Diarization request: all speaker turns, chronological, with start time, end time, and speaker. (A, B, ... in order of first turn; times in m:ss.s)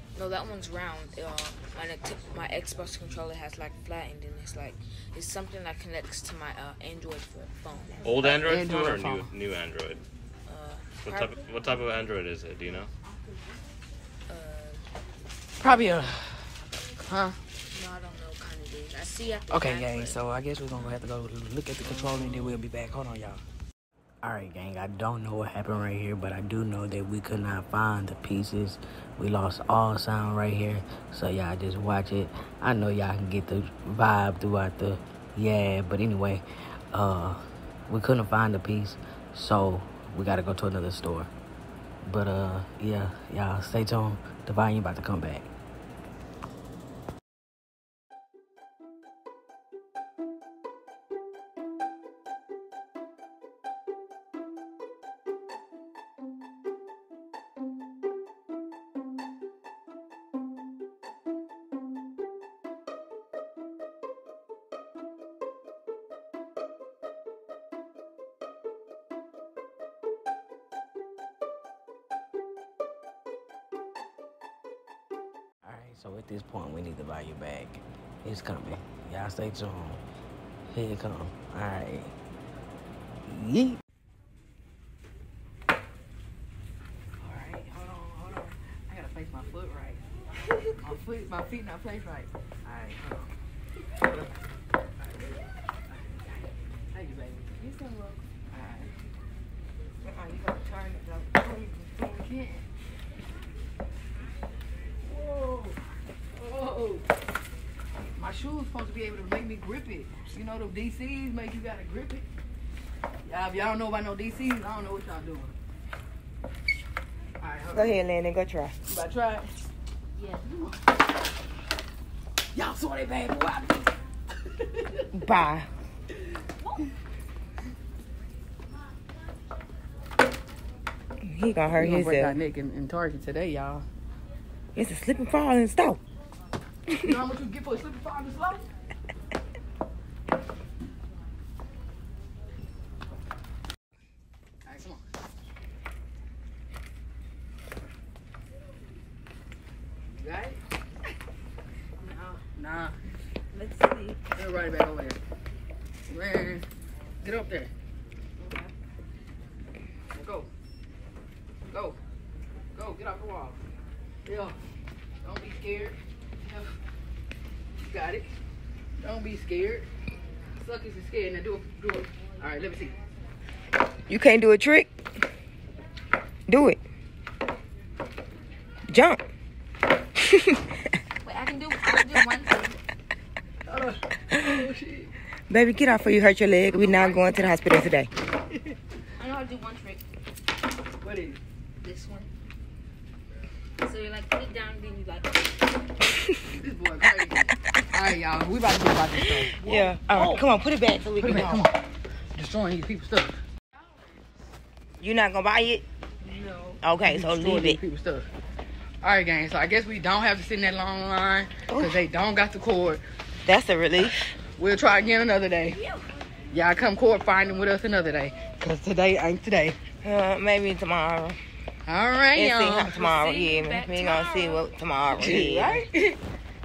0:00.1-0:08.1 A
0:08.0-0:10.0 B
0:08.2-0:09.3 C
0:10.4-0:11.4 A
0:11.0-0:12.9 B
0:14.3-0:14.9 A
0:15.6-0:16.4 C
0:15.6-0:16.1 A
0:17.0-0:17.4 C
0:17.7-0:20.2 A
0:19.5-0:23.4 C
0:24.2-0:41.3 C
0:42.0-0:45.5 C
1:15.6-1:20.0 C
1:20.7-1:22.1 C
1:23.3-1:23.8 C
1:27.2-1:30.0 C
1:30.8-1:33.3 C
1:35.0-1:37.6 C
1:37.8-1:38.2 D
1:38.5-1:38.9 C
1:40.0-1:42.0 D
1:42.0-1:42.6 C
1:45.0-1:45.8 C
1:46.3-1:47.0 C
1:48.1-1:52.2 C
1:53.2-1:55.5 C
1:57.4-1:58.0 C
1:57.7-1:58.8 D
1:58.8-1:59.4 C
2:00.2-2:00.8 C
2:02.5-2:03.9 C
2:04.5-2:05.1 C
2:05.1-2:05.7 D
2:11.2-2:12.4 D
2:11.7-2:13.8 C
2:14.7-2:16.0 D
2:17.0-2:18.6 C
2:24.6-2:25.0 C
2:30.1-2:30.6 C
2:32.0-2:32.4 A
2:32.4-2:32.9 C
2:33.5-2:34.2 A
2:34.3-2:35.2 C
2:36.1-2:36.6 C
2:37.2-2:37.7 C
2:40.1-2:40.5 C
2:41.7-2:42.0 C
2:42.7-2:43.6 C
2:44.2-2:44.6 C
2:45.2-2:46.7 C
2:47.8-2:48.3 C
2:49.0-2:49.9 C
2:50.6-2:52.9 C
2:54.1-2:54.9 D
2:56.5-2:56.8 D
2:58.9-2:59.2 D
3:00.2-3:00.9 D
3:01.2-3:02.8 A
3:03.7-3:05.1 C
3:04.3-3:04.6 D
3:05.5-3:08.1 D
3:06.8-3:07.2 A
3:09.2-3:10.0 A
3:11.0-3:11.4 C
3:11.8-3:12.3 A
3:13.8-3:15.5 A
3:16.5-3:20.4 C
3:19.2-3:21.6 D
3:21.2-3:21.8 C
3:22.4-3:23.4 C
3:25.0-3:25.8 D
3:26.7-3:28.2 C
3:26.8-3:27.8 D
3:29.0-3:33.0 C
3:31.7-3:32.0 D
3:33.4-3:34.2 D
3:34.3-3:35.8 C
3:36.5-3:39.8 C
3:40.0-3:41.4 D
3:41.8-3:43.0 C
3:42.3-3:45.8 D
3:43.0-3:44.7 A
3:45.1-3:46.2 C